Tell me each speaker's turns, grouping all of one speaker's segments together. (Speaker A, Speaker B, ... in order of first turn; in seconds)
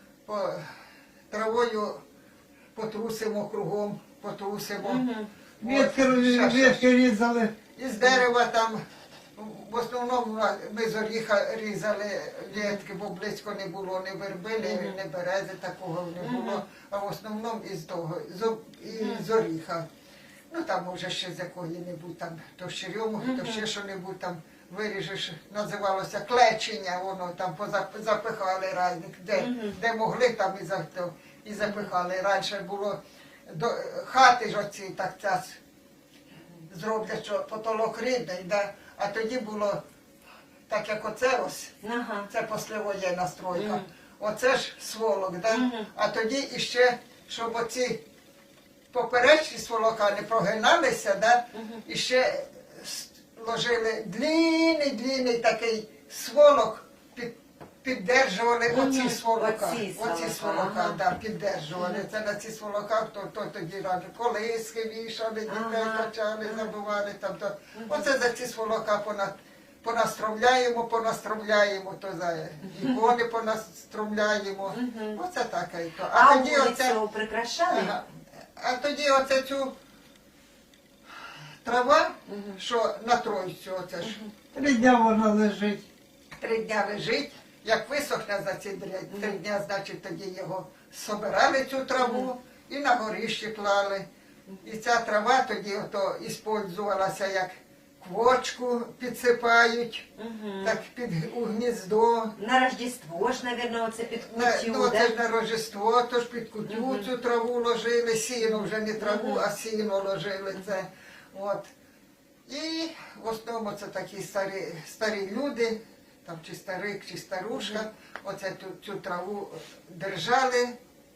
Speaker A: 0.2-0.7, 1.3-2.0, 2.7-5.0, 5.6-6.9, 7.7-8.8, 9.3-19.8, 20.5-35.6, 36.7-39.8, 40.7-41.7, 42.3-48.0, 48.9-77.0, 77.7-79.7, 81.6-84.2, 86.4-94.0, 94.6-100.1, 100.6-102.3, 104.1-111.7, 112.5-120.7
Speaker B: 4.8-5.3, 12.5-12.8, 14.6-15.0, 16.2-16.6, 18.9-19.3, 23.2-23.6, 29.4-29.8, 31.6-31.9, 41.8-42.3, 43.5-43.9, 45.5-45.9, 51.5-51.8, 58.7-61.0, 61.8-62.0, 65.5-66.7, 67.7-68.1, 74.7-75.2, 76.1-77.9, 82.2-82.6, 84.0-84.3, 89.1-89.4, 92.0-92.3, 100.2-100.8, 102.3-105.1, 106.7-107.1, 108.5-109.4, 117.5-117.8
Speaker C: 5.6-7.5, 84.5-85.8